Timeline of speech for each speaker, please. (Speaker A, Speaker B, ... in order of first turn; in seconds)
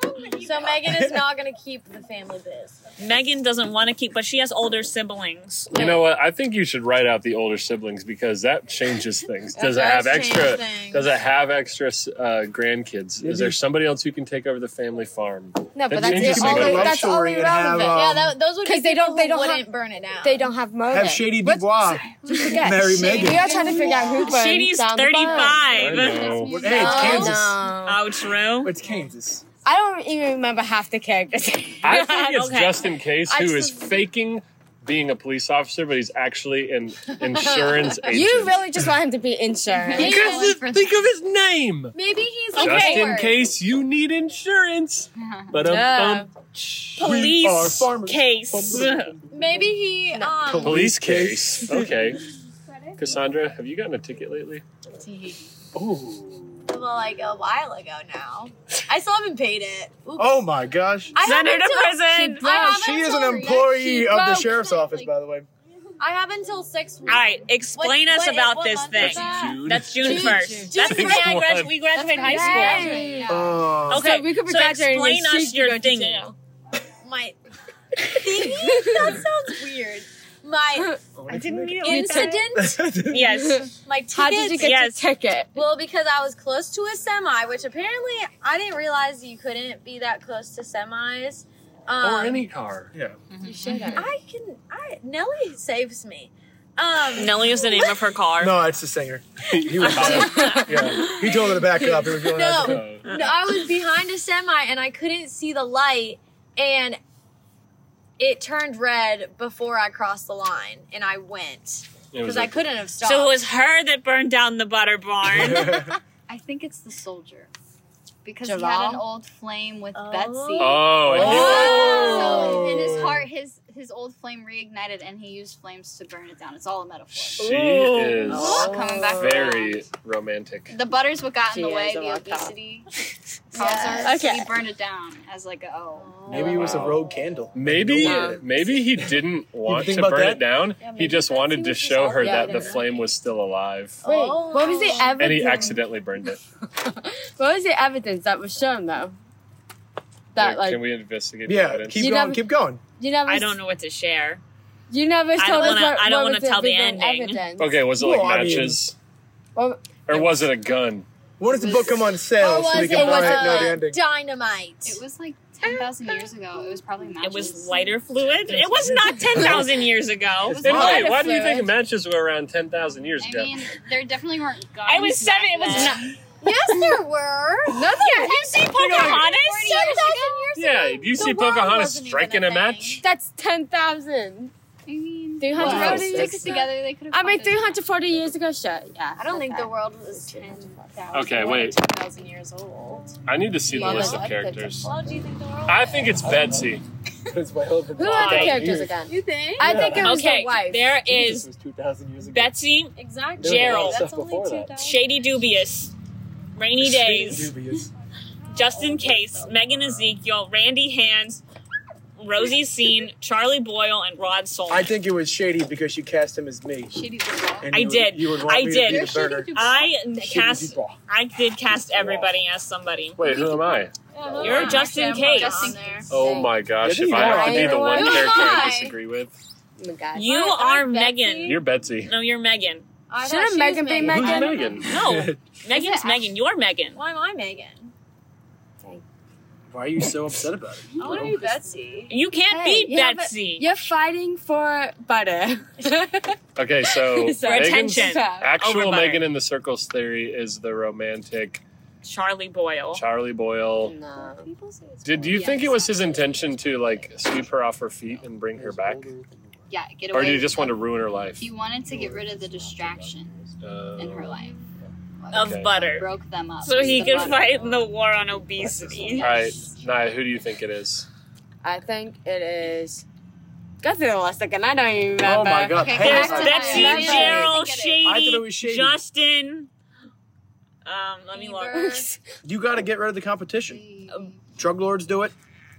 Speaker A: 0.2-2.8, 9.6-11.2, 17.9-20.5, 23.1-24.2, 26.7-27.5, 39.9-40.6, 41.9-43.4, 49.3-50.8, 56.7-60.5, 61.1-65.1, 66.0-71.4, 72.1-73.3, 77.0-77.4, 78.0-81.0, 81.8-82.8, 83.8-84.8, 85.5-92.5, 93.9-98.0, 101.6-107.0, 108.2-113.4, 119.9-122.9, 133.6-134.3, 135.9-136.9, 140.8-143.0, 144.0-145.8, 162.4-165.0, 165.6-166.8, 176.4-183.0, 189.2-196.2, 199.1-200.0, 203.0-205.1, 218.7-220.0, 223.3-223.6, 224.1-226.3, 227.8-229.0, 230.3-231.6, 233.1-234.8, 236.9-237.9, 241.0-242.2, 254.2-256.5, 276.0-277.8, 281.3-282.1
Speaker B: 0.8-1.2, 13.2-13.6, 15.9-18.4, 20.9-23.5, 26.5-27.6, 28.6-29.4, 46.7-49.6, 50.4-52.0, 55.7-56.6, 60.2-61.2, 62.5-65.5, 73.3-74.2, 81.2-83.3, 98.4-102.9, 115.3-115.9, 121.1-121.6, 122.4-123.1, 136.3-138.5, 139.7-140.5, 151.5-152.8, 158.0-158.8, 161.4-164.0, 168.5-169.7, 170.5-171.2, 185.6-186.3, 197.3-199.0, 199.6-200.2, 201.1-202.5, 203.4-204.9, 206.8-207.9, 214.7-216.9, 217.6-219.7, 220.2-221.0, 226.8-228.0, 234.0-235.4, 239.7-241.4, 258.1-259.7, 261.8-263.5, 268.6-269.2, 275.2-276.8, 278.0-279.0, 282.4-283.8, 284.6-285.4
Speaker C: 3.0-5.7, 24.2-26.3, 27.9-28.7, 32.2-32.8, 42.5-43.2, 47.0-49.1, 61.2-62.6, 67.1-73.0, 73.9-76.3, 81.3-82.5, 83.1-83.7, 84.6-85.1, 97.1-98.6, 99.8-101.2, 103.1-103.3, 113.0-115.8, 127.4-128.3, 153.3-154.4, 155.4-157.4, 167.2-170.7, 174.8-176.1, 178.2-180.0, 198.1-198.6, 200.0-201.5, 202.3-204.1, 204.8-205.9, 206.6-207.5, 208.5-211.4, 212.2-214.9, 217.7-223.2, 224.4-225.8, 230.2-232.9, 234.8-237.0, 242.1-243.7, 247.4-249.3, 252.0-253.0, 265.3-266.1, 266.6-269.3, 276.0-279.7, 280.9-282.0
Speaker D: 5.7-17.1, 25.7-26.8, 31.8-38.8, 40.0-42.0, 42.6-46.3, 50.6-52.2, 53.0-54.6, 69.0-71.8, 92.0-92.9, 99.5-100.6, 102.5-103.2, 112.1-112.7, 120.6-123.0, 127.3-130.8, 136.4-137.0, 137.6-144.0, 145.2-146.4, 150.4-152.1, 157.6-158.9, 160.1-161.1, 169.3-169.6, 170.6-173.7, 180.6-183.0, 185.6-186.2, 191.1-191.8, 193.3-194.9, 195.7-196.8, 198.2-198.6, 223.2-223.9, 226.1-229.4, 231.4-232.1, 234.1-234.9, 246.6-251.6, 252.9-254.0, 255.0-259.1, 260.1-261.5, 263.6-264.4, 265.3-265.7, 269.2-271.1
Speaker E: 5.7-6.0, 15.8-19.7, 20.2-25.8, 26.8-28.1, 29.6-32.5, 33.3-34.0, 37.2-40.4, 45.6-46.3, 50.1-50.6, 62.1-63.1, 70.0-71.1, 72.2-76.4, 78.3-79.2, 81.9-82.5, 83.2-85.6, 93.4-94.1, 100.1-101.1, 118.4-119.0, 121.2-122.6, 128.3-129.6, 131.5-132.6, 133.6-134.6, 138.0-138.4, 142.2-142.8, 144.1-145.9, 146.8-149.2, 150.3-150.8, 152.0-152.5, 153.0-153.6, 154.9-157.8, 159.6-160.5, 162.7-163.8, 170.6-171.7, 177.7-178.7, 183.0-184.5, 185.4-191.0, 193.7-194.8, 198.0-200.9, 226.1-226.5, 227.1-228.7, 229.8-230.6, 233.2-234.7, 242.5-248.5, 253.8-254.5, 271.6-273.0, 273.8-277.6, 281.7-282.2
Speaker F: 23.1-24.2, 25.4-27.4, 39.8-41.0, 45.2-45.5, 72.1-73.6, 93.3-94.1, 116.3-117.5, 118.2-127.5, 128.3-129.8, 130.7-132.9, 133.5-136.4, 164.8-168.0, 173.2-176.1, 178.9-180.5, 184.9-188.0, 216.9-217.9, 224.3-226.0, 235.7-236.3, 241.1-241.4, 255.3-255.8, 259.7-263.4, 264.0-264.6, 265.2-267.9, 275.7-278.0, 283.6-284.4